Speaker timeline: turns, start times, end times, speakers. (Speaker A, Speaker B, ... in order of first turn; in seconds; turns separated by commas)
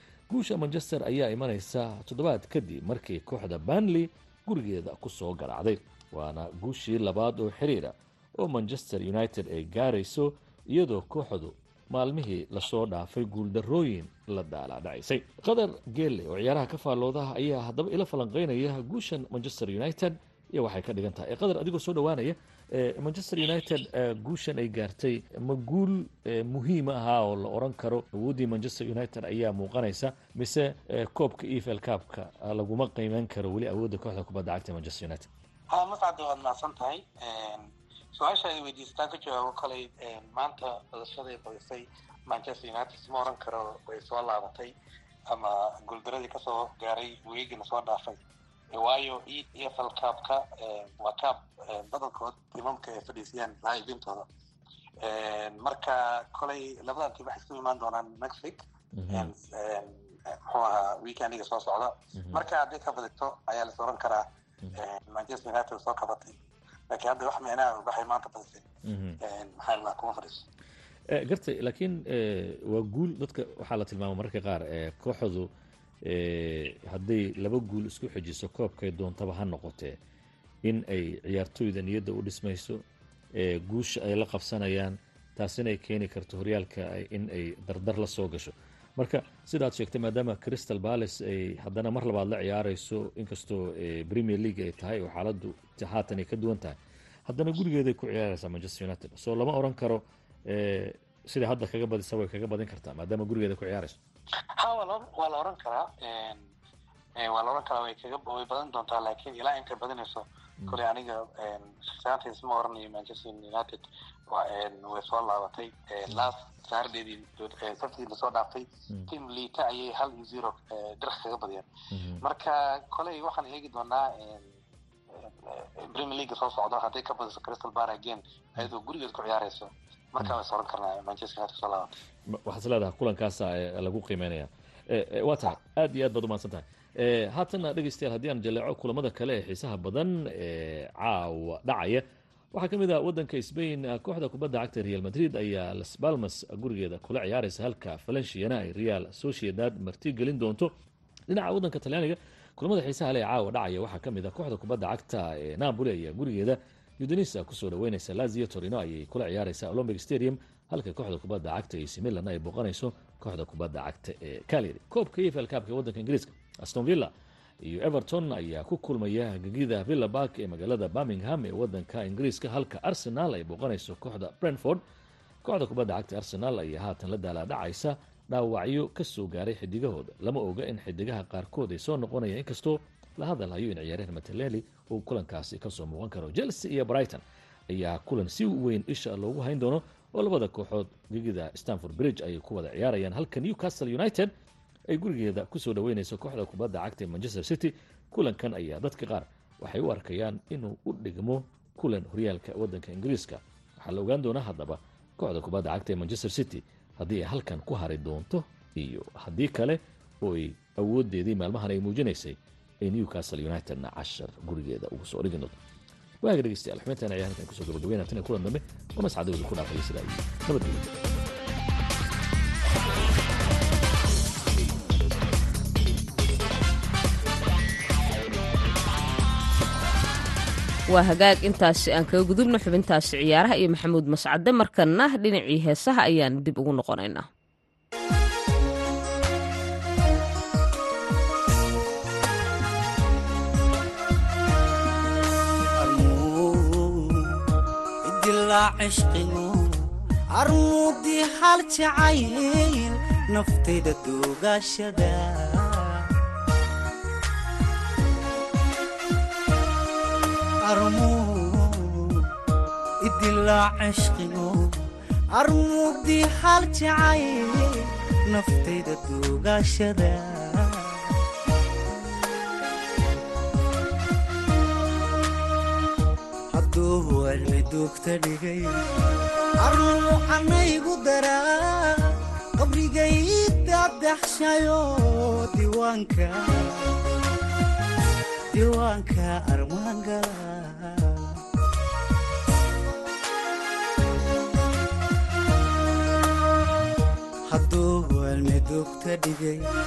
Speaker A: 0.3-35.3, Speaker B: 35.7-44.7, Speaker B: 45.3-48.2, Speaker B: 48.7-54.2, Speaker B: 55.0-64.2, Speaker A: 59.0-59.3, Speaker A: 62.2-62.4, Speaker B: 64.7-66.3, Speaker B: 66.9-68.6, Speaker A: 68.9-69.2, Speaker B: 69.2-70.4, Speaker A: 71.1-75.5, Speaker A: 76.0-80.0, Speaker A: 80.6-82.8, Speaker A: 83.4-96.8, Speaker A: 97.3-104.0, Speaker B: 104.6-106.5, Speaker B: 107.2-121.7, Speaker A: 121.9-122.2, Speaker B: 122.2-124.5, Speaker B: 125.2-131.9, Speaker A: 132.3-150.7, Speaker A: 151.3-167.1, Speaker A: 167.6-174.8, Speaker A: 175.4-194.3, Speaker A: 194.9-215.5, Speaker A: 216.2-220.9, Speaker C: 230.9-237.3, Speaker D: 245.8-247.2, Speaker D: 248.1-249.7, Speaker D: 250.4-255.9, Speaker D: 260.7-262.2, Speaker D: 263.1-264.7, Speaker D: 265.3-267.8, Speaker D: 268.3-270.9, Speaker D: 276.5-278.8, Speaker D: 279.6-286.8, Speaker D: 288.5-291.2, Speaker D: 297.5-299.6